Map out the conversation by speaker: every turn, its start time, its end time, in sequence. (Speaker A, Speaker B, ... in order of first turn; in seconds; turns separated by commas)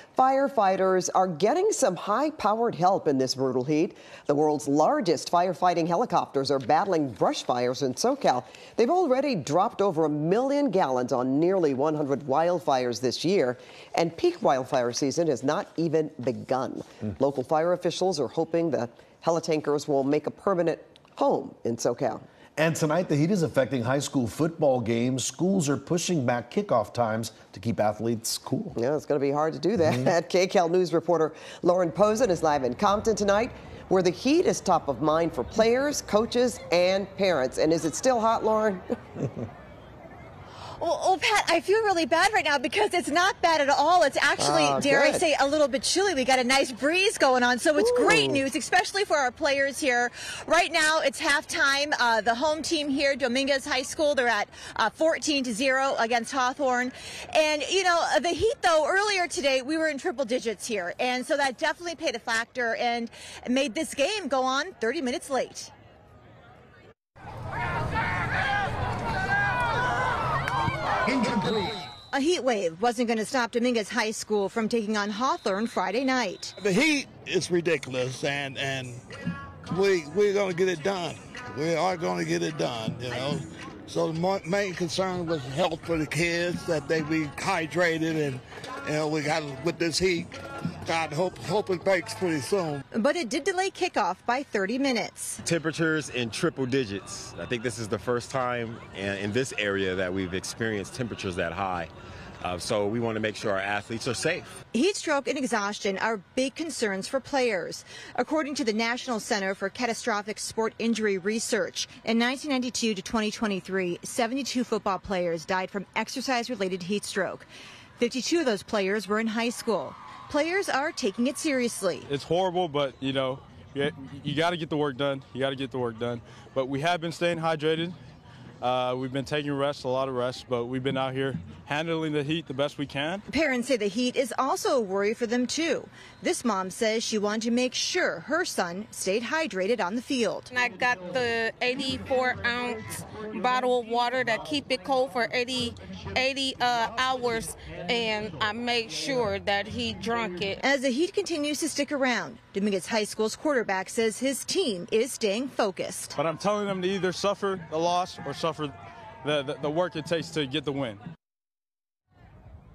Speaker A: 0.1-22.2, Speaker B: 22.6-28.8, Speaker A: 28.8-38.9, Speaker C: 40.8-65.7, Speaker A: 44.4-45.3, Speaker A: 47.8-48.4, Speaker C: 72.1-76.5, Speaker D: 76.6-79.0, Speaker D: 79.7-90.3, Speaker D: 90.9-92.8, Speaker C: 92.9-95.4, Speaker E: 95.5-101.9, Speaker E: 102.4-104.5, Speaker C: 104.7-117.5, Speaker C: 118.0-122.1, Speaker F: 122.1-128.0, Speaker F: 128.6-133.2, Speaker C: 133.3-140.5, Speaker G: 140.5-150.6, Speaker C: 150.6-156.2, Speaker F: 156.2-161.0